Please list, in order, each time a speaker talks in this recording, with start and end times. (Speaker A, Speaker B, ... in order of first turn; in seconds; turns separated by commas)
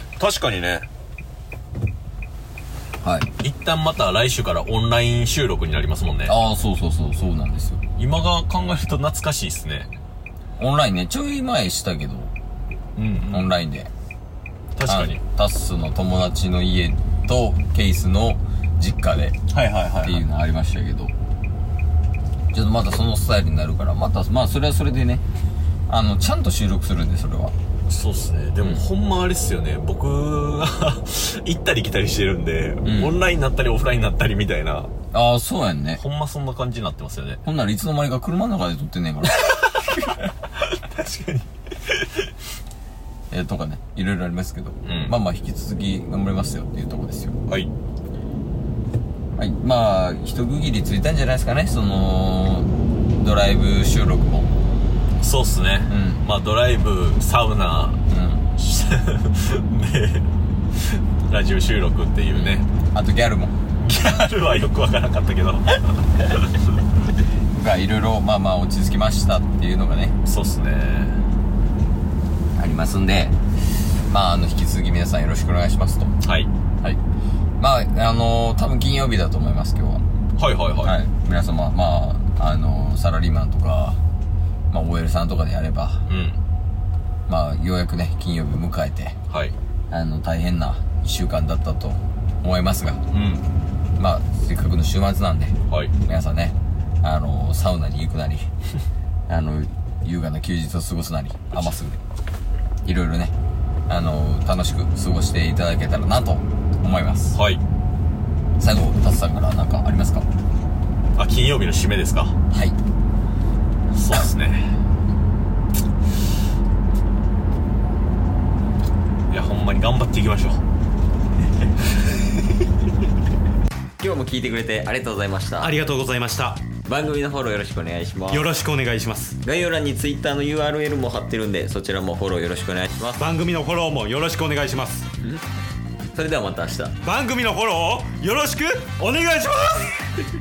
Speaker A: 0.2-0.9, Speaker B: 3.0-3.3, Speaker A: 3.4-6.3, Speaker B: 6.3-7.8, Speaker A: 8.0-9.9, Speaker B: 10.6-12.3, Speaker A: 13.0-13.6, Speaker B: 13.3-13.9, Speaker A: 14.8-15.2, Speaker B: 14.9-19.4, Speaker A: 19.5-20.2, Speaker B: 20.0-21.1, Speaker B: 22.5-25.2, Speaker B: 25.9-27.5, Speaker A: 27.9-34.9, Speaker B: 32.8-33.2, Speaker B: 35.1-36.0, Speaker A: 36.0-37.4, Speaker B: 37.5-40.1, Speaker A: 40.5-42.3, Speaker B: 43.3-47.4, Speaker A: 44.9-45.2, Speaker B: 49.4-54.5, Speaker A: 55.2-58.0, Speaker B: 55.9-56.2, Speaker B: 58.1-58.5, Speaker A: 58.6-62.7, Speaker B: 62.3-63.5, Speaker A: 63.8-66.5, Speaker B: 67.5-70.2, Speaker A: 70.2-71.2, Speaker B: 72.6-73.4, Speaker B: 74.1-76.1, Speaker A: 76.2-76.5, Speaker B: 77.6-80.0, Speaker A: 80.4-81.0, Speaker B: 80.8-84.0, Speaker B: 84.7-86.0, Speaker A: 86.1-86.4, Speaker B: 87.3-89.2, Speaker A: 89.3-89.6, Speaker B: 89.9-93.0, Speaker A: 93.1-93.5, Speaker B: 94.0-98.5, Speaker A: 95.7-95.9, Speaker B: 99.3-102.0, Speaker B: 102.8-103.3, Speaker B: 103.9-107.3, Speaker A: 107.3-107.6, Speaker B: 108.6-110.3, Speaker A: 111.2-112.4, Speaker B: 112.5-112.8, Speaker A: 113.9-114.7, Speaker A: 119.3-120.6, Speaker B: 124.0-125.8, Speaker C: 125.6-126.7, Speaker B: 126.8-128.5, Speaker C: 128.3-129.4, Speaker B: 129.4-133.3, Speaker C: 133.2-135.1, Speaker B: 136.1-137.0, Speaker C: 137.0-139.9